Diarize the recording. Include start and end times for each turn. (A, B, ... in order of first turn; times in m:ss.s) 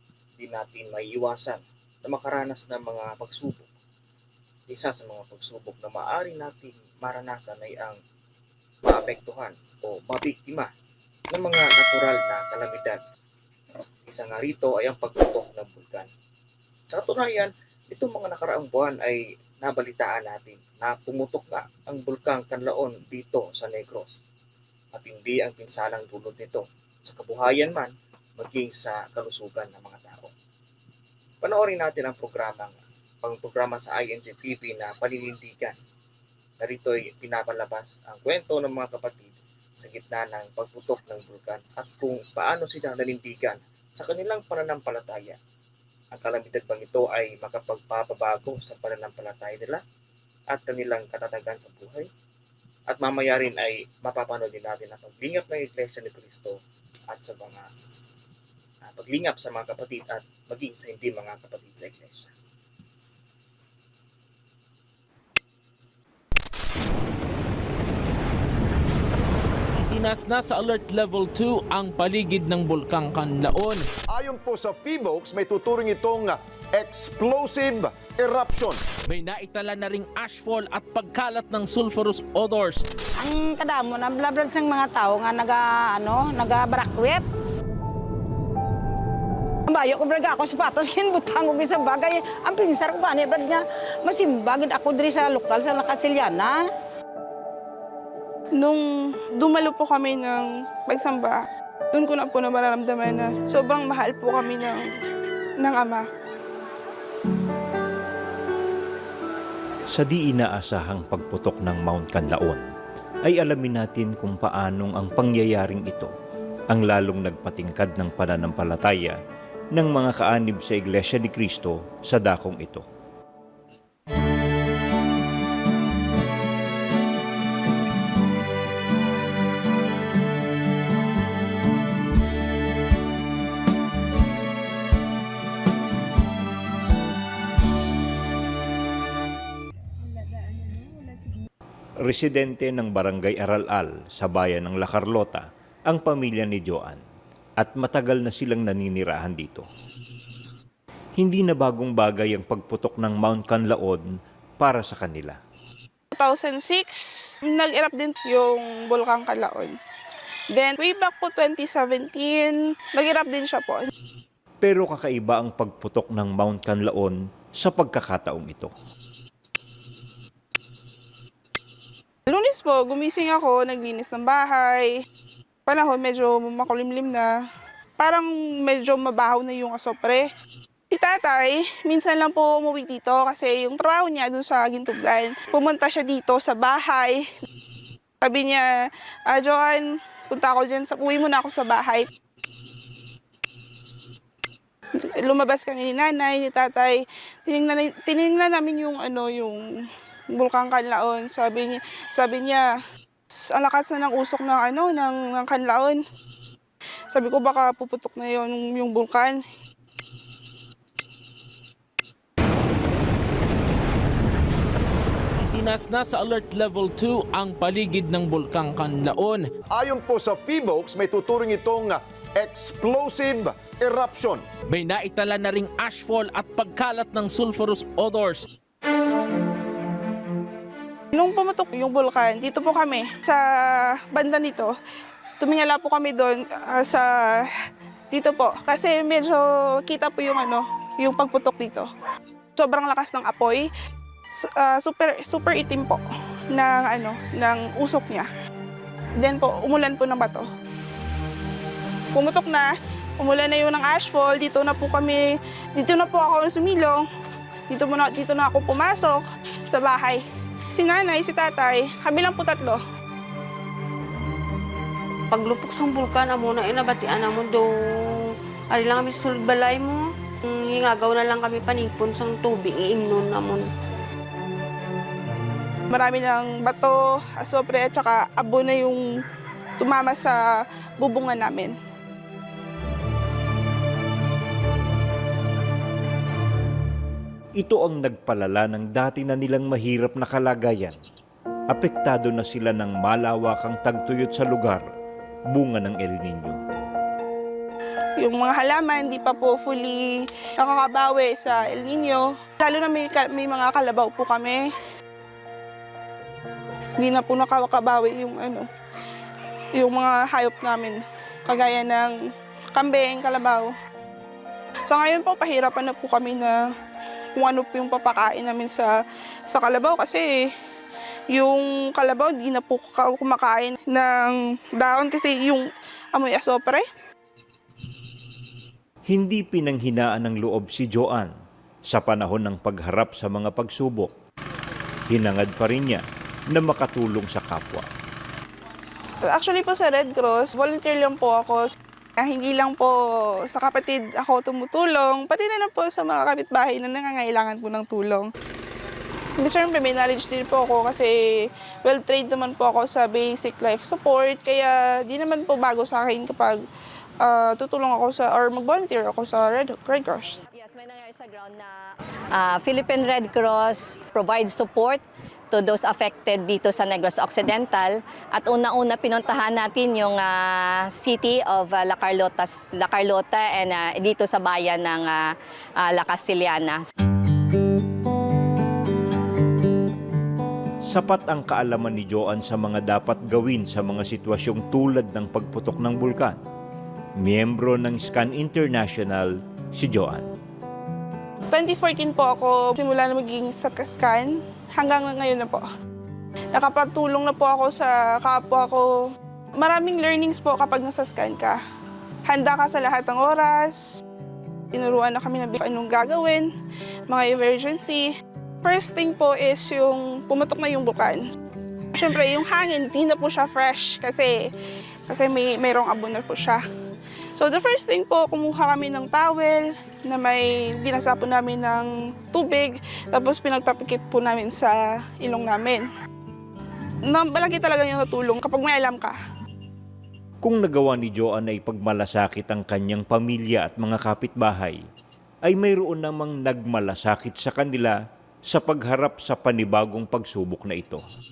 0:00.4-0:03.7 A
0:04.7-0:08.0 A
0:08.8-0:10.7 A
0:11.3-0:13.0 A
0:14.1-0:16.1 A
0:16.9-0:24.1 A
0:24.9-0:30.3 A
0:31.4-0:35.7 A
0:36.6-0:45.4 A
0:46.1-0:49.8 A
0:50.5-0:52.1 A
0:52.9-0:56.6 A
0:57.1-0:57.6 A
0:58.8-1:02.3 A
1:09.8-1:13.8 B
1:14.1-1:18.8 C
1:19.1-1:22.8 B
1:23.2-1:27.2 D
1:29.7-1:36.6 D
1:38.6-1:44.9 E
1:45.6-1:46.0 E
1:49.9-1:52.6 F
1:53.3-1:56.1 F
1:56.7-1:59.2 F
1:59.8-2:02.8 F
2:22.0-2:27.0 F
2:27.6-2:29.7 F
2:31.2-2:34.0 F
2:34.6-2:35.4 F
2:36.1-2:39.8 E
2:40.5-2:43.9 E
2:44.6-2:48.7 F
2:52.3-2:54.9 E
2:55.7-2:57.3 E
2:58.0-3:00.3 E
3:00.9-3:07.2 E
3:08.2-3:12.1 E
3:15.1-3:19.7 E
3:20.3-3:22.7 E
3:23.4-3:26.0 E
3:27.1-3:29.4 E
3:35.4-3:39.4 B
3:39.7-3:44.4 C
3:44.7-3:48.4 B
3:51.1-3:54.7 E
3:55.4-3:57.5 E
3:58.1-4:01.8 E
4:02.6-4:03.7 E
4:04.4-4:08.3 E
4:09.2-4:10.5 E
4:12.2-4:17.0 E
4:17.7-4:22.8 E
4:25.3-4:27.7 G
4:28.7-4:33.6 G
4:35.9-4:39.0 E
4:39.8-4:40.4 E
4:41.0-4:41.8 E
4:47.6-4:51.0 F
4:51.7-4:54.9 F
4:55.5-4:56.6 F
4:58.2-5:04.7 E
5:07.0-5:08.6 E
5:09.8-5:12.1 E
5:12.8-5:13.7 E
5:14.9-5:16.6 E
5:17.4-5:19.0 E
5:19.5-5:20.5 E
5:21.3-5:26.8 E
5:29.1-5:31.3 F
5:31.9-5:34.1 F
5:35.1-5:37.9 F
5:39.2-5:48.3 E
5:49.4-5:56.6 E
5:57.2-6:00.4 E
6:00.5-6:01.8 H
6:02.3-6:15.2 H
6:15.8-6:16.8 H
6:20.9-6:26.4 F
6:27.2-6:30.2 F
6:31.5-6:35.6 E
6:36.5-6:38.9 E
6:39.6-6:41.6 E
6:42.2-6:44.0 E
6:44.7-6:46.5 E
6:47.1-6:48.1 E
6:48.6-6:51.2 E
6:51.9-6:54.5 E
6:55.1-6:56.6 E
6:57.4-7:05.9 E
7:07.1-7:09.2 E
7:10.4-7:14.8 F
7:15.5-7:18.0 F
7:18.5-7:21.0 F